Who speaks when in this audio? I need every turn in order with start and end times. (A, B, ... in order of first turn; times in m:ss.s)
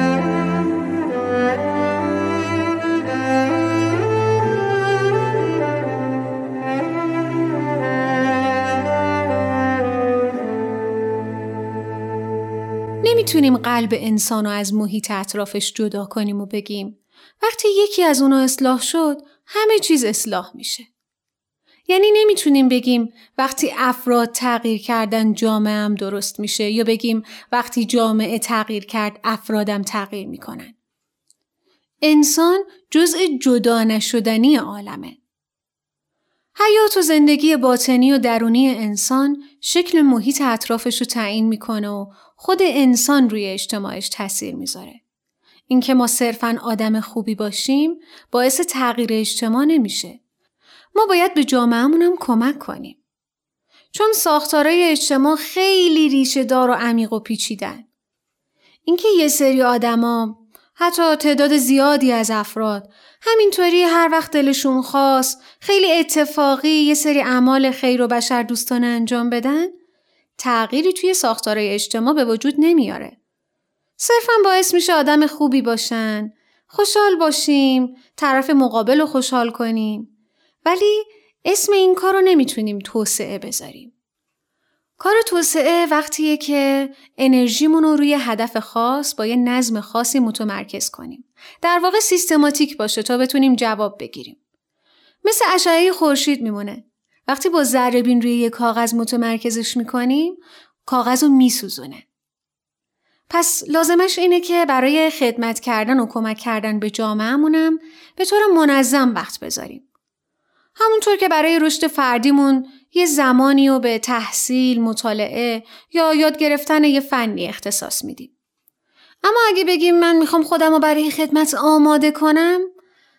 0:13.0-0:20.9 A
0:21.9-0:30.7 A
0:32.0-0:35.2 A
0:36.6-0:45.0 A
0:45.7-0:50.2 A
0:50.9-0:53.0 A
0:53.9-0:57.8 A
0:58.8-1:09.7 A
1:10.4-1:13.2 A
1:14.0-1:20.1 A
1:20.6-1:23.9 A
1:25.0-1:34.4 A
1:35.2-1:42.0 A
1:43.3-1:49.8 A
1:50.8-1:58.3 A
1:59.2-2:02.7 A